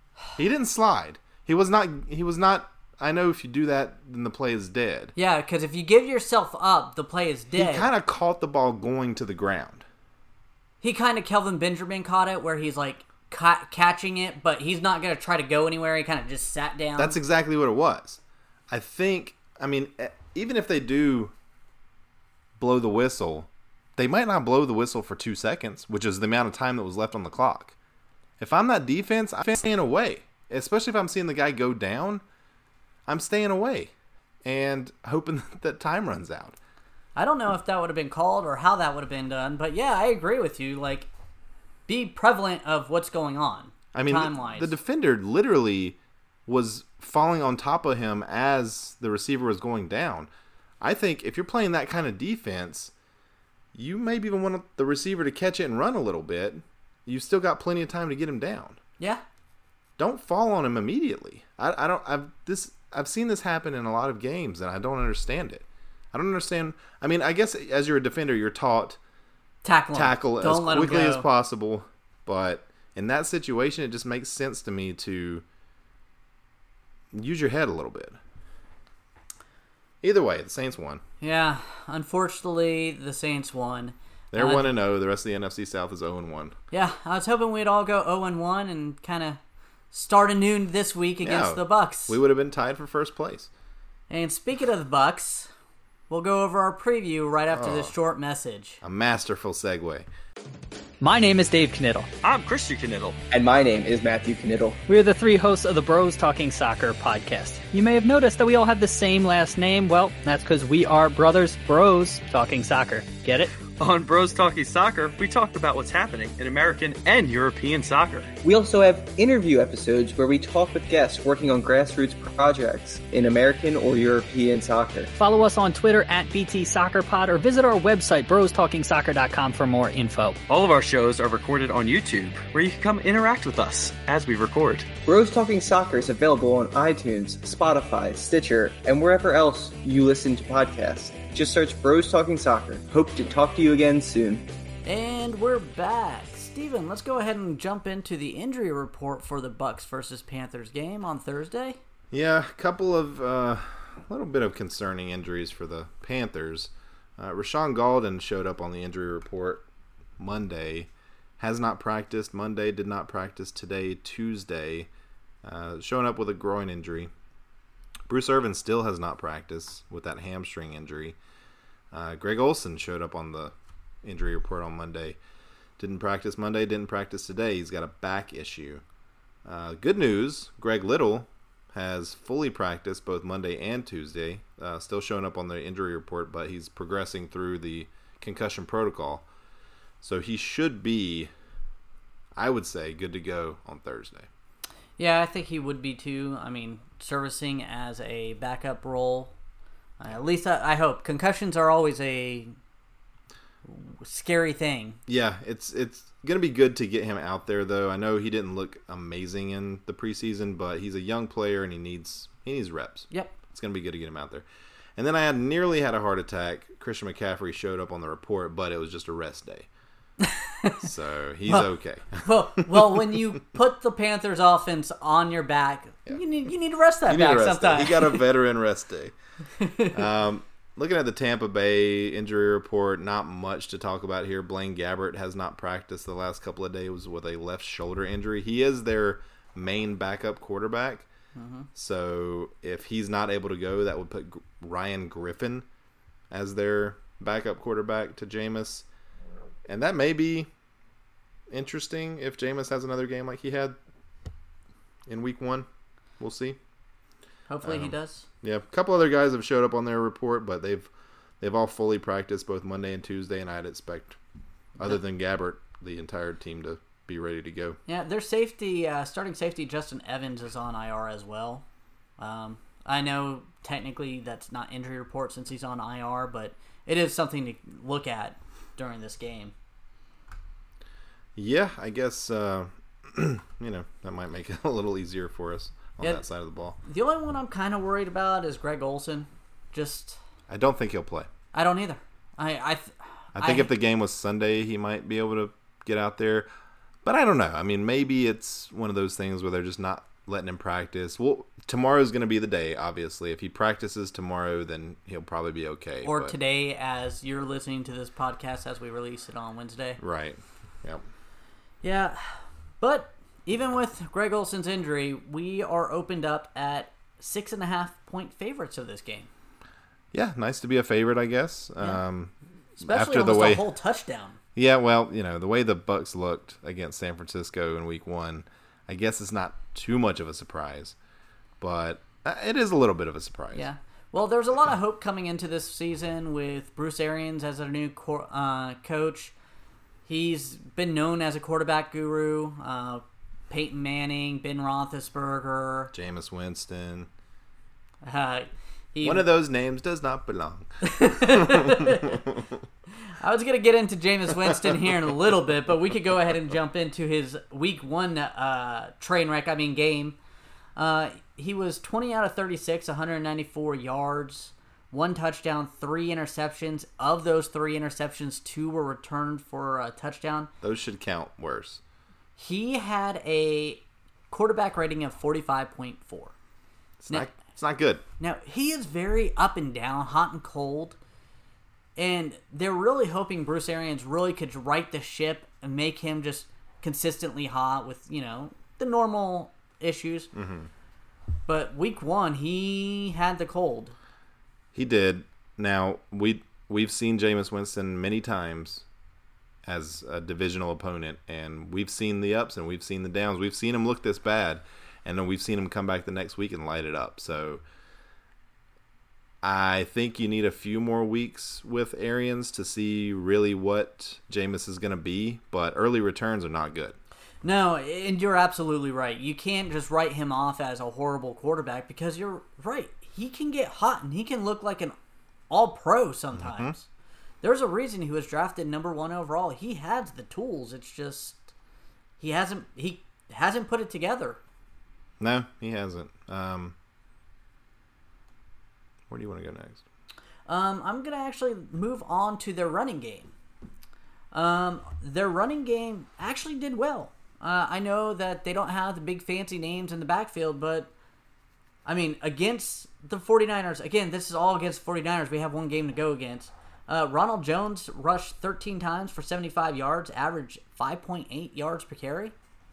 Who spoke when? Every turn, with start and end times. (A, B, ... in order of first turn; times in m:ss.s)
0:00.4-0:05.1 A
0:05.2-0:07.9 B
0:07.5-0:09.8 A
0:10.8-0:17.2 B
0:17.0-0:21.3 A
0:22.6-0:27.7 A
0:28.4-0:32.2 A
0:33.1-0:33.9 A
0:34.4-0:36.6 A
0:37.2-0:41.1 B
0:41.9-0:44.7 B
0:43.9-0:50.3 A
0:50.8-0:52.9 A
0:53.7-0:58.8 A
1:00.0-1:09.0 A
1:09.6-1:11.2 B
1:09.9-1:15.4 A
1:17.1-1:18.2 A
1:20.0-1:21.0 A
1:21.2-1:24.7 B
1:24.3-1:26.5 A
1:26.7-1:29.4 B
1:29.9-1:32.2 B
1:31.2-1:33.5 A
1:34.1-1:35.5 B
1:36.1-1:38.8 B
1:37.5-1:37.9 A
1:38.8-1:40.1 A
1:41.0-1:42.1 C
1:42.2-1:43.2 D
1:43.3-1:44.8 E
1:44.9-1:53.5 C
1:53.7-1:58.3 D
1:58.4-2:05.1 E
2:05.1-2:10.4 C
2:10.5-2:14.9 D
2:15.0-2:24.5 E
2:24.8-2:31.8 B
2:32.1-2:39.6 A
2:40.2-2:44.9 A
2:45.4-2:47.1 A
2:48.1-2:51.2 A
2:51.9-2:55.2 A
2:55.8-2:58.8 A
2:59.4-3:09.2 A
3:10.0-3:11.3 A
3:12.3-3:14.3 A
3:15.0-3:19.3 B
3:20.0-3:22.5 B
3:23.6-3:25.0 B
3:25.1-3:39.7 A
3:40.2-3:40.8 B
3:40.8-3:43.2 A
3:41.4-3:41.7 B
3:42.2-3:48.2 B
3:47.1-3:49.1 A
3:49.6-3:50.0 B
3:49.9-4:01.1 A
4:01.3-4:01.7 B
4:01.7-4:05.6 A
4:06.3-4:08.8 A
4:09.7-4:10.5 A
4:11.5-4:13.8 A
4:15.1-4:15.7 A
4:16.2-4:16.6 A
4:17.5-4:18.2 B
4:17.6-4:20.9 A
4:21.4-4:24.2 A
4:24.8-4:27.8 A
4:27.9-4:31.6 B
4:32.2-4:39.5 B
4:41.4-4:46.8 A
4:46.8-4:50.2 B
4:50.5-4:51.3 A
4:51.5-4:53.7 B
4:53.4-4:56.5 A
4:57.0-5:06.3 A
5:06.0-5:10.0 B
5:10.0-5:11.0 A
5:11.8-5:19.3 B
5:20.1-5:23.6 A
5:22.8-5:24.4 B
5:24.5-5:31.0 A
5:31.6-5:33.7 A
5:33.5-5:39.3 B
5:40.0-5:45.9 B
5:45.9-5:47.1 A
5:48.0-5:49.3 B
5:49.0-5:52.4 A
5:50.8-5:52.2 B
5:53.0-6:00.2 B
6:00.8-6:10.5 B
6:10.6-6:11.8 A
6:12.4-6:16.3 B
6:17.0-6:18.0 A
6:18.2-6:21.0 B
6:22.0-6:30.3 B
6:30.3-6:30.7 A
6:31.5-6:33.9 B
6:34.7-6:38.8 A
6:39.6-6:47.6 A
6:49.4-6:57.0 A
6:57.4-7:04.9 B
7:05.5-7:06.8 B
7:06.3-7:06.7 A
7:07.4-7:11.5 B
7:12.2-7:14.4 B
7:15.2-7:16.7 A
7:19.1-7:19.8 A
7:20.5-7:23.3 B
7:24.3-7:30.9 B
7:31.8-7:42.3 B